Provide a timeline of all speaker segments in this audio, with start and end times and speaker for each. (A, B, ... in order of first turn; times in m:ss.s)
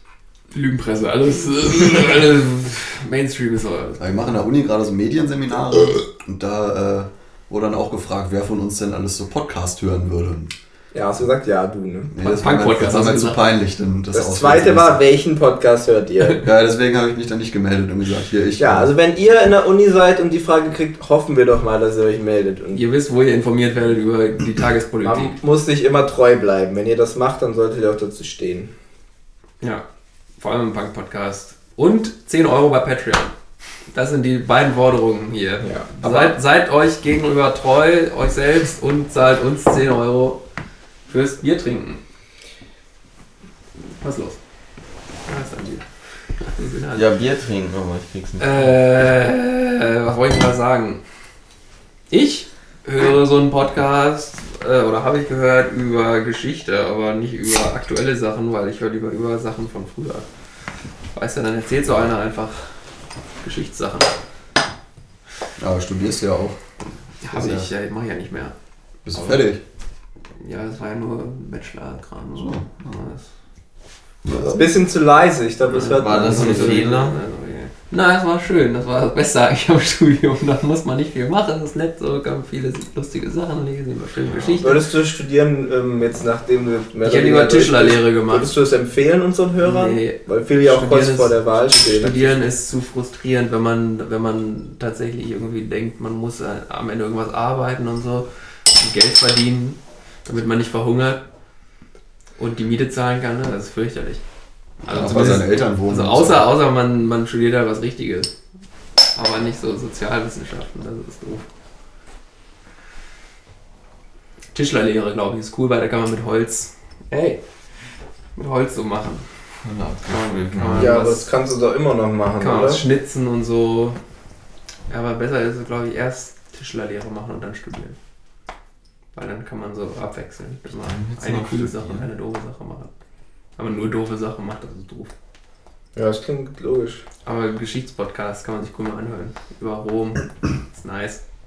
0:00.5-0:04.4 A
0:04.0-0:10.5 B
0:10.9-0:12.1 C
0:12.1-0:15.0 B
0:12.2-0:13.5 A
0:14.1-0:16.5 C
0:16.4-0:18.9 B
0:18.6-0:22.8 C
0:22.7-0:25.4 A
0:25.0-0:28.7 C
0:30.4-0:33.3 A
0:33.9-0:40.4 A
0:35.6-0:35.9 C
0:36.0-0:36.4 B
0:41.1-0:42.0 A
0:44.0-0:44.4 A
0:45.3-0:45.8 A
0:46.4-0:47.1 A
0:46.9-0:48.8 D
0:48.4-0:51.0 A
0:52.1-1:00.3 A
1:01.1-1:02.7 A
1:03.4-1:04.2 A
1:05.6-1:06.6 B
1:07.2-1:08.5 A
1:07.2-1:07.7 B
1:09.0-1:09.6 B
1:10.4-1:13.3 A
1:12.4-1:13.0 B
1:14.2-1:14.7 B
1:14.5-1:16.9 C
1:15.7-1:24.8 A
1:15.8-1:17.2 D
1:24.6-1:32.4 C
1:27.0-1:28.5 A
1:29.6-1:41.2 A
1:42.4-1:44.2 A
1:44.8-1:46.5 B
1:44.9-1:48.3 A
1:49.2-1:51.4 A
1:54.5-1:57.4 A
1:58.4-1:59.2 A
1:59.6-2:01.0 D
2:00.1-2:01.3 A
2:00.8-2:02.8 C
2:02.4-2:04.0 A
2:04.9-2:08.0 A
2:09.1-2:12.9 A
2:10.8-2:12.1 D
2:13.6-2:15.1 A
2:16.0-2:17.0 C
2:17.2-2:21.2 A